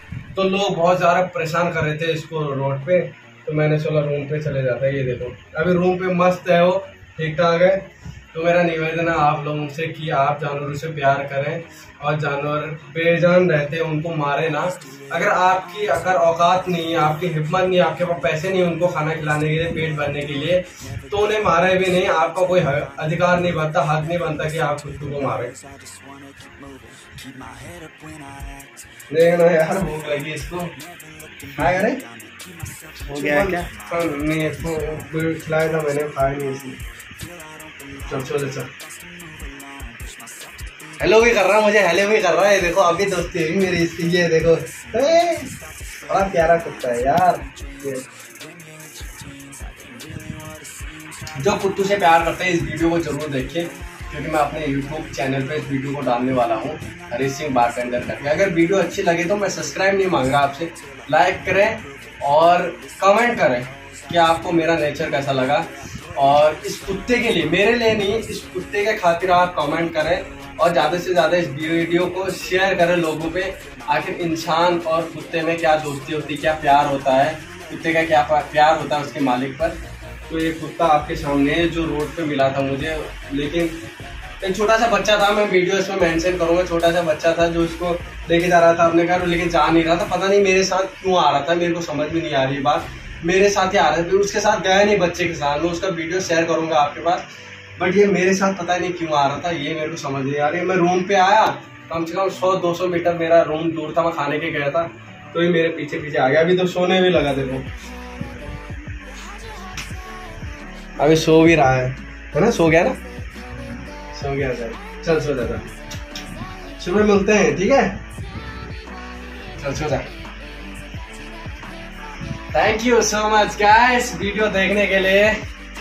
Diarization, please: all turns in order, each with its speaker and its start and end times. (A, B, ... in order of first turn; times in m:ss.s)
0:00.3-0:25.6 A
0:29.1-0:30.7 A
0:31.5-0:32.0 A
0:33.1-0:36.8 A
0:38.1-0:38.7 A
0:41.0-0:45.6 A
0:46.1-0:48.1 A
0:51.4-1:19.8 A
1:20.3-1:23.8 A
1:24.4-1:37.2 A
1:37.8-1:47.7 A
1:51.0-1:53.0 A
1:54.1-1:55.7 A
1:56.8-1:58.0 A
1:59.6-2:00.1 A
2:02.5-2:05.4 A